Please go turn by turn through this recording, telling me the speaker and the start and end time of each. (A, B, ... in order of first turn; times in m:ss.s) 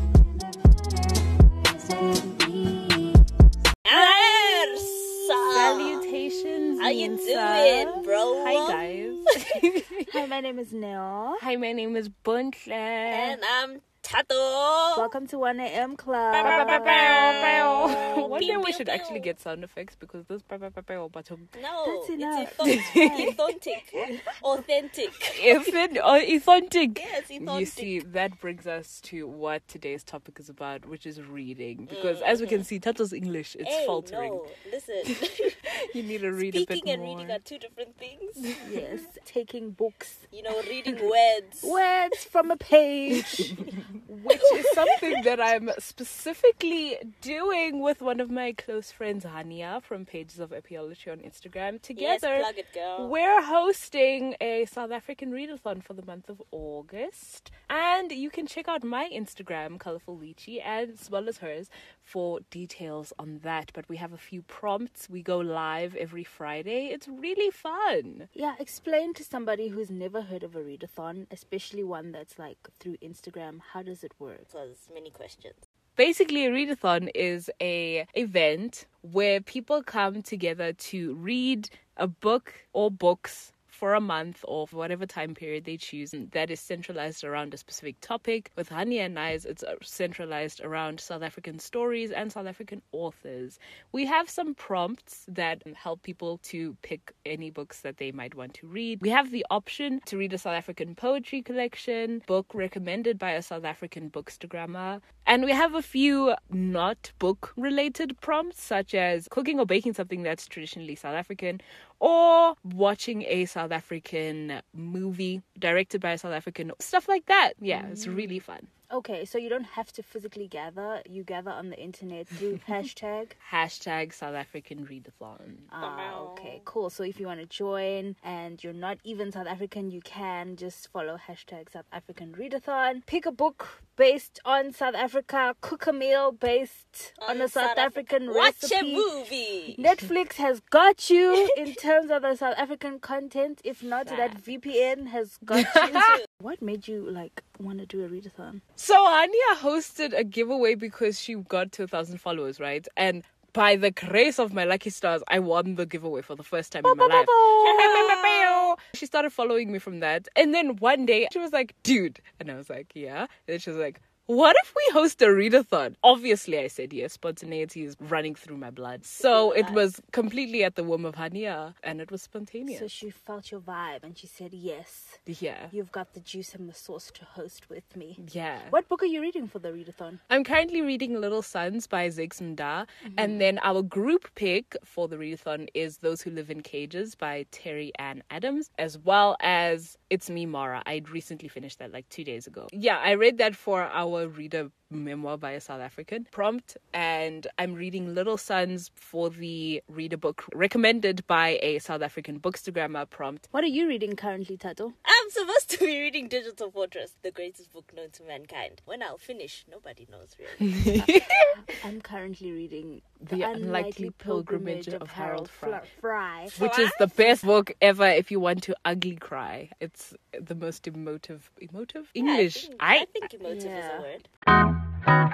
0:01.6-0:03.2 A
0:03.8-0:06.1 B
0:03.9-0:04.9 A
0:05.5-0:10.1 C
0:05.6-0:06.1 A
0:06.6-0:07.2 A
0:06.8-0:09.5 B
0:07.8-0:08.2 A
0:10.1-0:11.4 A
0:11.4-0:13.4 C
0:13.1-0:15.1 B
0:15.0-0:17.5 A
0:16.3-0:19.3 B
0:16.4-0:21.5 C
0:21.6-0:25.7 B
0:21.8-0:23.4 A
0:22.6-0:23.4 C
0:24.0-0:24.2 A
0:25.3-0:34.4 C
0:27.0-0:28.0 B
0:31.9-0:32.7 B
0:33.6-0:35.6 B
0:35.1-0:37.4 C
0:36.4-0:38.4 B
0:38.6-0:40.3 A
0:40.3-0:41.8 B
0:41.6-0:43.6 A
0:43.1-1:08.3 C
0:44.4-0:45.0 B
0:52.0-0:53.1 B
1:08.4-1:14.5 A
1:14.5-1:15.6 B
1:16.0-1:58.7 C
1:57.7-2:03.4 A
2:03.4-2:05.7 C
2:05.7-2:19.1 A
2:05.8-2:06.7 B
2:17.2-2:19.8 B
2:19.7-2:28.6 A
2:24.0-2:24.4 B
2:25.6-2:25.9 C
2:25.7-2:26.2 B
2:28.8-2:53.0 C
2:36.8-2:38.1 A
2:37.6-2:38.7 B
2:49.2-2:49.8 B
2:52.7-3:00.2 A
2:55.3-2:55.7 C
2:58.2-2:58.8 C
3:00.3-3:23.5 C
3:03.0-3:03.4 A
3:23.5-3:25.0 A
3:25.0-3:30.9 B
3:30.6-3:31.8 C
3:31.4-3:36.6 A
3:33.2-3:35.8 C
3:36.5-3:37.2 B
3:36.6-3:43.1 C
3:42.2-3:44.3 B
3:43.4-3:44.1 A